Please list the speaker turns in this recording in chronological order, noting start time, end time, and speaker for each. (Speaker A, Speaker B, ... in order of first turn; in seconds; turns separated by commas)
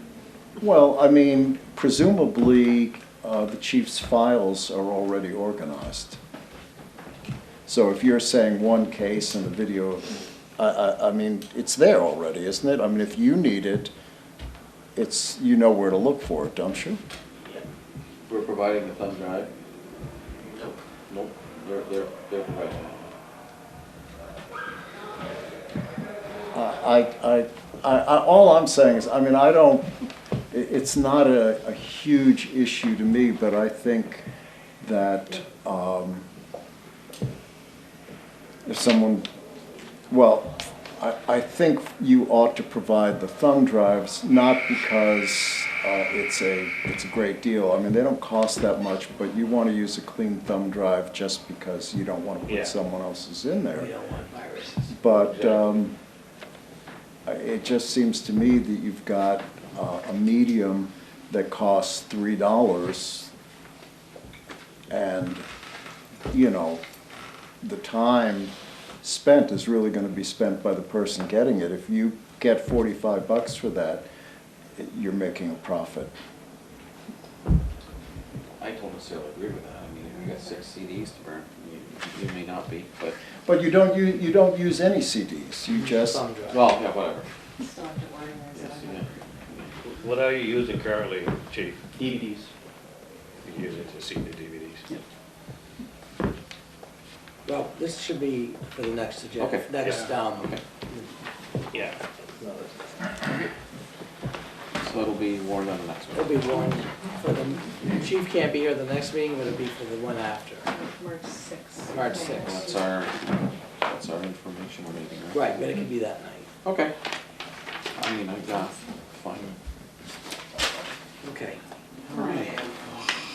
Speaker A: 0.6-6.2, Speaker A: 7.7-13.9, Speaker A: 14.9-17.0, Speaker B: 18.3-19.5, Speaker B: 21.1-23.1, Speaker A: 26.5-34.3, Speaker A: 34.8-36.3, Speaker A: 38.6-39.3, Speaker A: 40.1-53.9, Speaker C: 52.5-52.7, Speaker D: 53.7-55.6, Speaker A: 54.9-55.9, Speaker A: 57.2-63.3, Speaker A: 64.9-65.5, Speaker A: 66.3-66.8, Speaker A: 67.6-74.1, Speaker A: 74.8-76.1, Speaker B: 78.6-83.2, Speaker A: 83.4-86.2, Speaker D: 85.7-86.7, Speaker B: 86.5-87.3, Speaker E: 87.6-89.4, Speaker B: 88.5-89.7, Speaker C: 89.9-92.0, Speaker C: 93.4-94.8, Speaker D: 97.5-101.0, Speaker B: 99.4-99.7, Speaker C: 101.7-102.0, Speaker B: 104.8-106.3, Speaker D: 106.1-110.7, Speaker E: 110.7-112.9, Speaker D: 111.9-112.5, Speaker B: 112.4-113.2, Speaker B: 113.8-115.4, Speaker D: 115.3-116.5, Speaker B: 116.6-116.9, Speaker B: 118.0-119.5, Speaker D: 121.2-121.6, Speaker B: 122.0-122.6